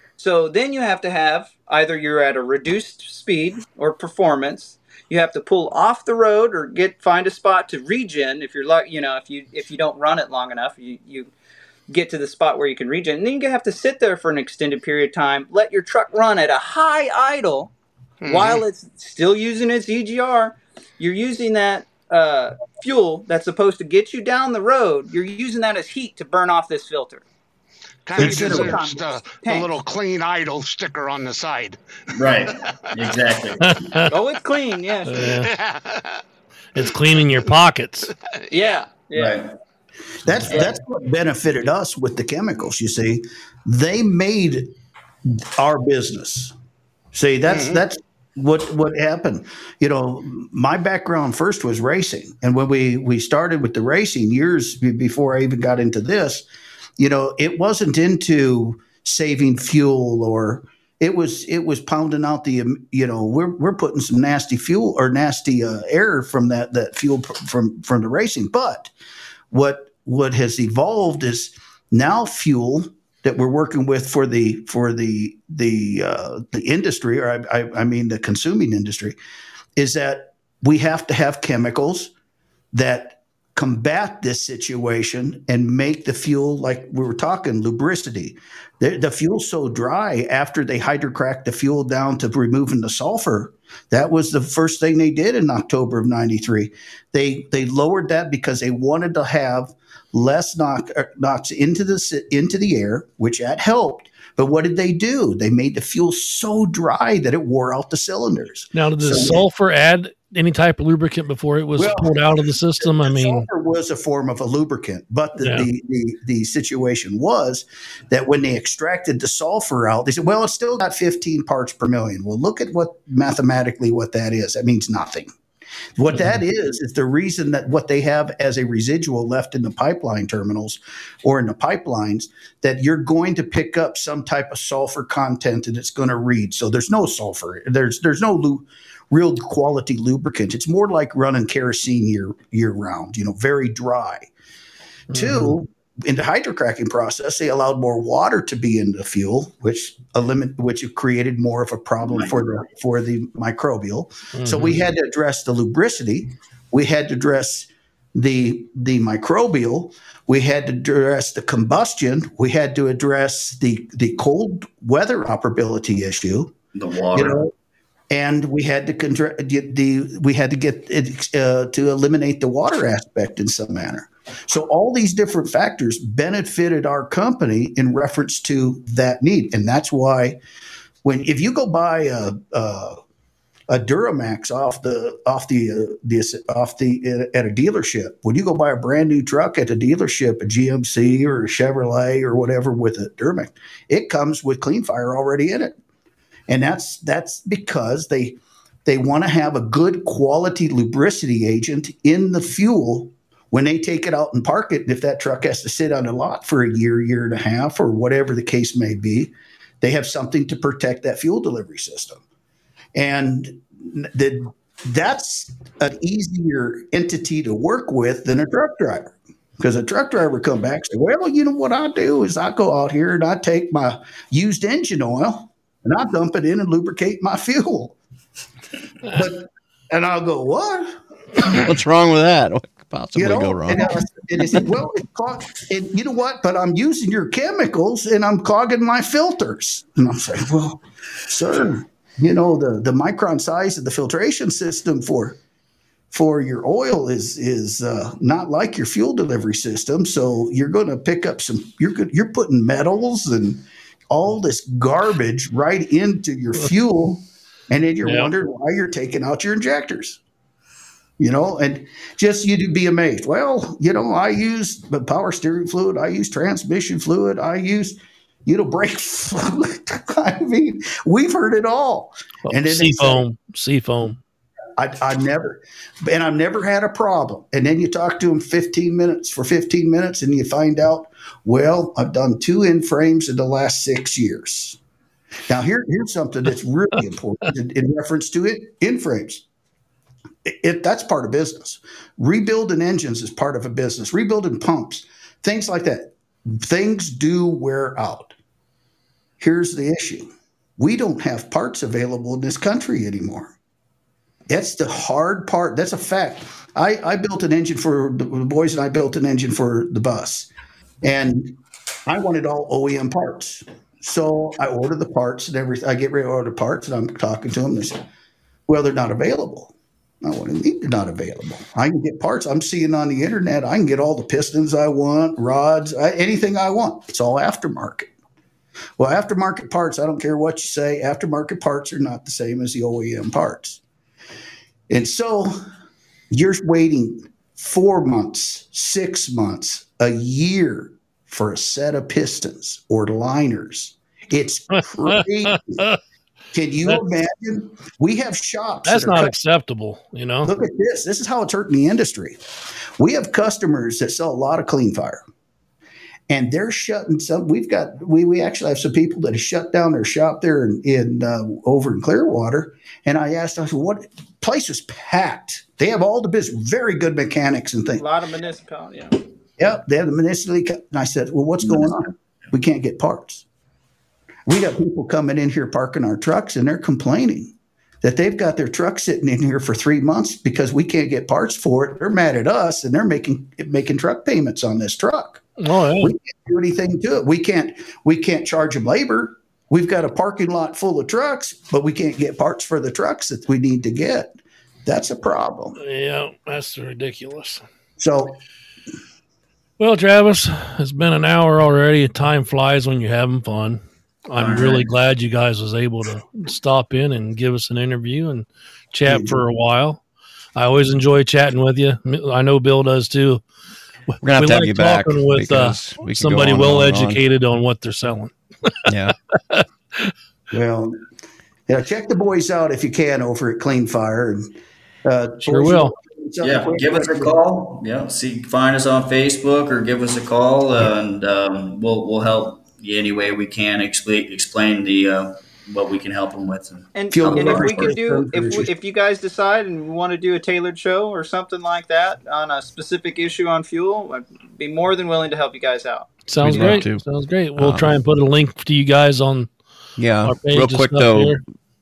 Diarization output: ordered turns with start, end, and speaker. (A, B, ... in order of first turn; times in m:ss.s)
0:00.2-0:11.3 A
0:11.9-0:17.7 A
0:18.2-0:18.6 B
0:18.2-0:27.2 A
0:28.0-0:32.8 B
0:28.2-0:28.8 A
0:28.2-0:29.8 C
0:32.1-0:34.1 D
0:33.6-0:34.0 E
0:34.1-0:35.3 A
0:35.1-0:35.5 E
0:35.3-0:36.2 B
0:36.7-0:38.1 E
0:38.5-0:39.4 A
0:39.2-0:39.5 D
0:40.2-0:44.7 C
0:40.4-0:40.7 D
0:45.3-0:46.5 C
0:47.1-0:56.4 C
0:47.5-0:47.8 B
0:57.0-1:08.9 C
1:09.5-1:19.2 C
1:19.8-1:22.1 C
1:22.7-1:49.4 C
1:48.7-1:53.5 E
1:51.8-2:05.3 C
1:55.4-1:55.7 E
2:06.0-2:24.3 C
2:25.1-2:25.5 E
2:25.1-2:46.5 C
2:32.0-2:32.4 D
2:34.3-2:34.8 E
2:46.7-2:47.4 D
2:47.1-2:47.5 C
2:48.1-3:00.4 C
3:01.0-3:03.0 C
3:03.7-3:15.8 C
3:16.5-3:32.2 C
3:32.9-3:48.0 C
3:49.0-3:51.7 C
3:51.4-3:53.9 F
3:53.2-4:05.4 C
4:06.1-4:20.2 C
4:18.0-4:18.3 E
4:21.2-4:33.2 C
4:32.4-4:34.2 E
4:34.8-4:44.8 C
4:45.5-4:49.4 C
4:50.4-4:58.3 C
4:59.4-5:03.5 C
5:04.5-5:10.5 C
5:11.0-5:18.0 C
5:18.7-5:28.1 C
5:29.0-5:33.8 C
5:34.9-5:35.6 C
5:36.3-5:45.8 C
5:44.8-5:46.0 E
5:46.5-5:49.3 C
5:48.8-5:50.5 E
5:50.4-5:52.4 C
5:53.0-5:55.2 C
5:56.3-6:08.0 C
6:08.0-6:09.2 A
6:09.6-6:13.4 C
6:14.4-6:25.4 C
6:25.6-6:26.1 E
6:26.0-6:35.8 C
6:35.8-6:37.6 E
6:38.0-6:38.4 C
6:39.8-6:50.0 E
6:44.4-6:44.9 D
6:49.1-6:49.4 C
6:50.6-6:53.4 E
6:54.2-6:57.2 F
6:54.4-6:58.8 E
6:58.9-6:59.1 F
6:59.4-7:00.1 E
7:00.5-7:01.0 C
7:01.7-7:04.5 C
7:05.0-7:07.4 C
7:05.4-7:05.9 E
7:06.4-7:18.0 D
7:16.9-7:26.8 A
7:17.1-7:18.7 C
7:26.3-7:29.5 E
7:26.4-7:27.0 F
7:27.6-7:28.0 F
7:30.0-7:31.4 F
7:30.2-7:31.4 E